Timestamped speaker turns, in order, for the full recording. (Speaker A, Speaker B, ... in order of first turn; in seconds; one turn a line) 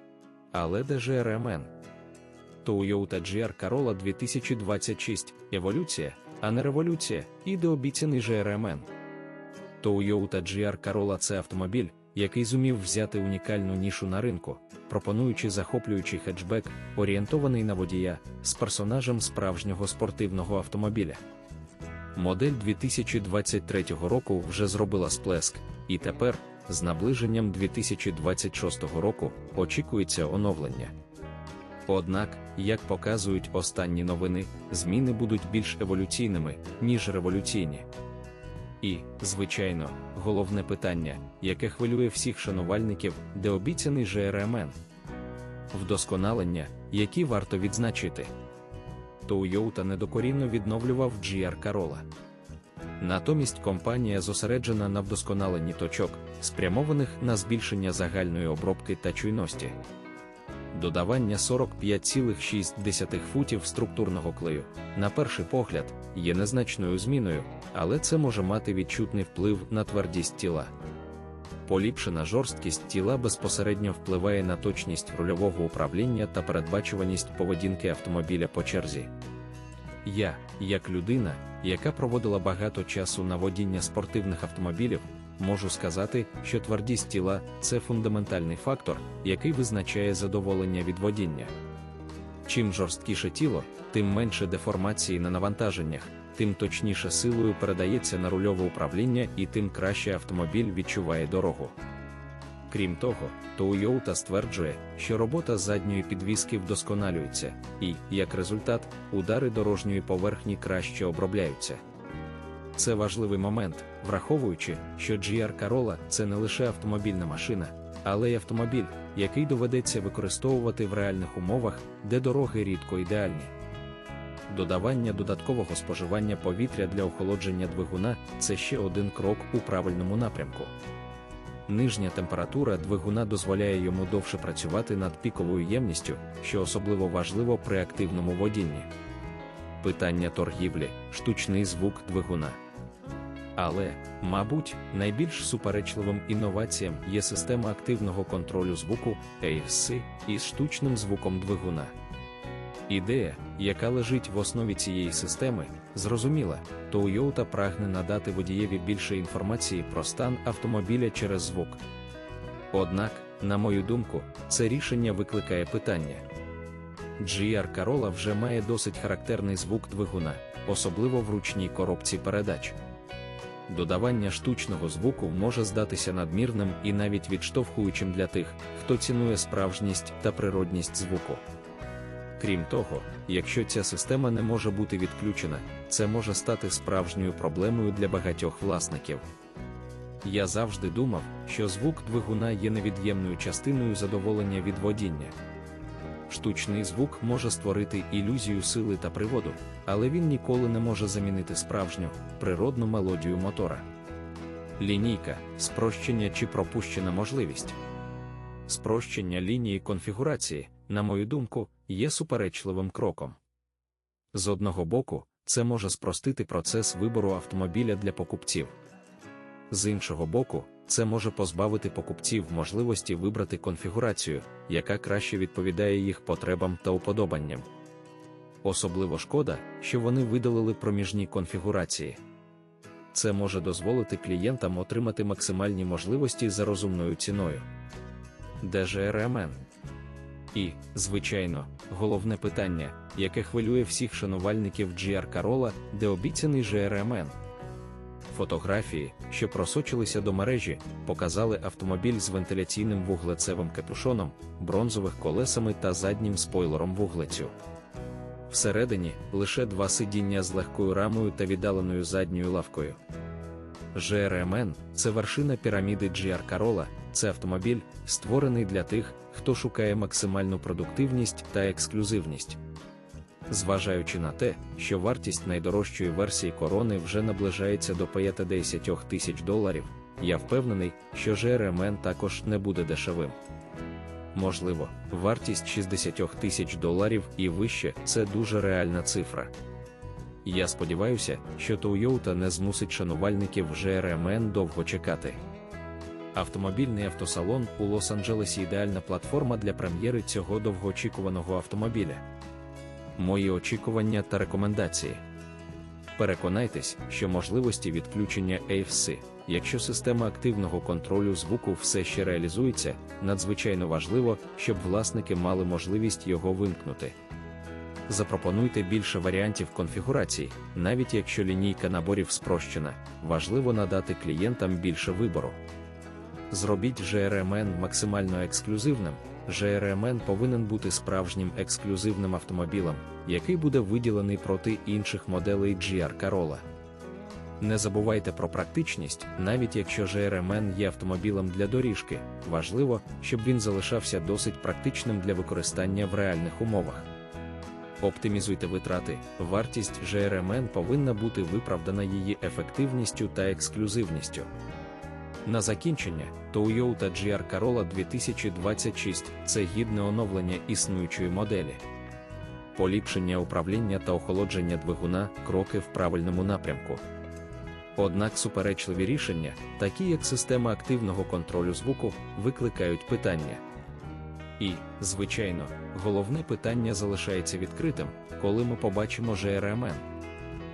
Speaker A: 0.5-1.7
Speaker A: 2.6-8.9
Speaker A: 9.8-21.2
Speaker A: 22.1-30.9
Speaker A: 31.9-37.9
Speaker A: 38.8-44.8
Speaker A: 45.7-48.3
Speaker A: 49.2-52.0
Speaker A: 53.0-59.8
Speaker A: 60.7-70.7
Speaker A: 71.7-79.1
Speaker A: 80.0-91.5
Speaker A: 92.5-101.8
Speaker A: 102.7-111.8
Speaker A: 112.8-123.5
Speaker A: 124.5-130.7
Speaker A: 131.7-138.9
Speaker A: 139.8-142.6
Speaker A: 143.6-151.9
Speaker A: 152.9-161.8
Speaker A: 162.7-166.2
Speaker A: 167.2-172.8
Speaker A: 173.7-181.4
Speaker A: 182.4-189.2
Speaker A: 190.2-195.3
Speaker A: 196.3-203.8
Speaker A: 204.8-207.8
Speaker A: 208.7-213.4
Speaker A: 214.3-218.7
Speaker A: 219.7-227.7
Speaker A: 228.6-232.2
Speaker A: 233.1-237.7
Speaker A: 238.6-239.6
Speaker A: 240.5-247.3
Speaker A: 248.3-257.5
Speaker A: 258.5-263.0
Speaker A: 263.9-272.6
Speaker A: 273.5-283.4
Speaker A: 284.3-289.5
Speaker A: 290.4-295.4
Speaker A: 296.3-302.2
Speaker A: 303.2-305.2
Speaker A: 306.2-317.1
Speaker A: 318.1-325.6
Speaker A: 326.5-336.6
Speaker A: 337.6-347.1
Speaker A: 348.0-354.5
Speaker A: 355.4-361.8
Speaker A: 362.7-367.0
Speaker A: 367.9-373.6
Speaker A: 374.6-380.1